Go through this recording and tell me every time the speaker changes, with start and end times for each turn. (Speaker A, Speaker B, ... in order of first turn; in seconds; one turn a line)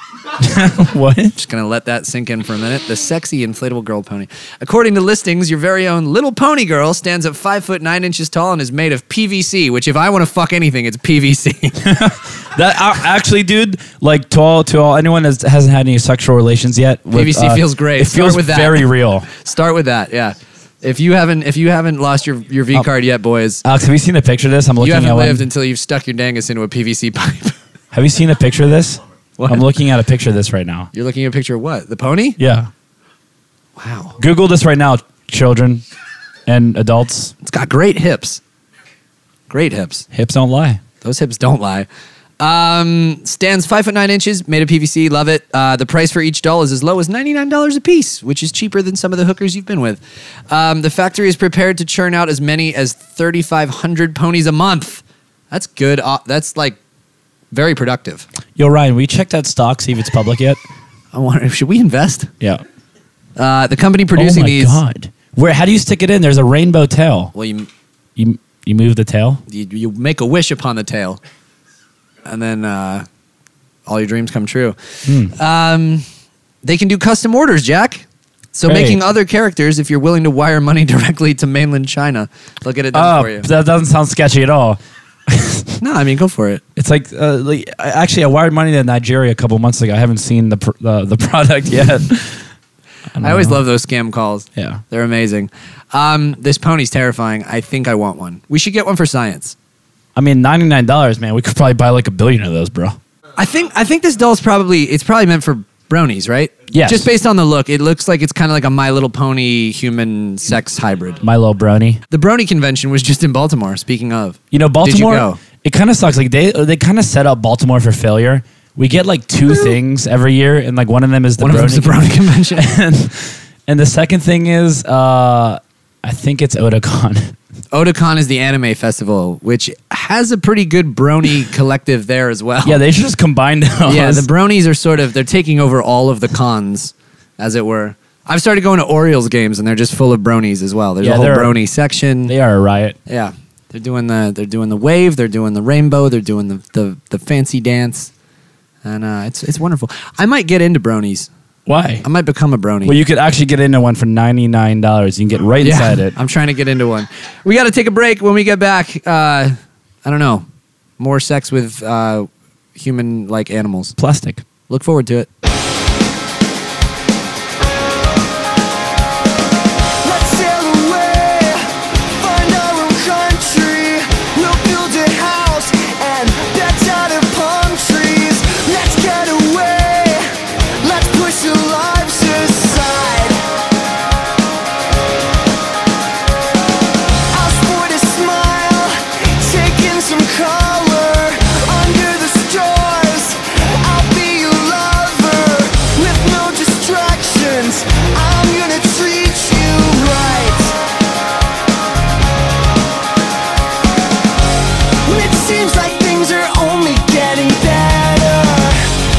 Speaker A: 0.4-1.4
Speaker B: 1.4-11.9
Speaker A: 11.8-19.3
Speaker B: 17.1-23.6
Speaker A: 23.6-25.5
Speaker B: 24.8-27.6
Speaker A: 27.9-30.9
Speaker B: 29.4-29.7
Speaker B: 30.9-32.4
Speaker A: 32.4-32.7
Speaker B: 33.8-34.2
Speaker A: 34.2-35.8
Speaker A: 36.5-37.3
Speaker B: 37.4-38.4
Speaker B: 39.5-40.1
Speaker A: 40.1-40.8
Speaker B: 41.0-41.9
Speaker B: 42.4-56.8
Speaker B: 57.5-58.3
Speaker A: 58.6-60.6
Speaker B: 61.1-62.3
Speaker B: 63.4-64.8
Speaker A: 64.1-67.3
Speaker B: 67.3-67.7
Speaker A: 68.2-69.4
Speaker B: 69.5-71.2
Speaker B: 72.2-73.1
Speaker B: 73.9-76.0
Speaker A: 75.1-75.3
Speaker B: 76.6-83.5
Speaker A: 78.7-79.0
Speaker A: 82.9-85.8
Speaker B: 85.8-86.6
Speaker A: 86.8-92.5
Speaker A: 93.1-93.6
Speaker B: 93.2-99.5
Speaker A: 94.6-94.8
Speaker A: 100.2-103.0
Speaker B: 103.4-111.2
Speaker A: 106.7-107.1
Speaker A: 111.2-112.0
Speaker B: 112.1-115.4
Speaker A: 114.5-127.3
Speaker B: 121.4-122.7
Speaker B: 127.7-132.8
Speaker A: 132.6-134.3
Speaker B: 133.8-142.3
Speaker A: 141.0-141.6
Speaker A: 142.3-143.0
Speaker B: 143.1-148.1
Speaker B: 148.8-151.3
Speaker A: 151.7-152.1
Speaker B: 152.0-153.0
Speaker A: 152.8-156.2
Speaker B: 155.6-160.5
Speaker B: 161.0-163.9
Speaker A: 164.0-164.4
Speaker B: 164.7-165.3
Speaker C: 170.0-180.3
Speaker C: 180.8-183.4
Speaker C: 187.3-200.8
Speaker C: 205.1-208.8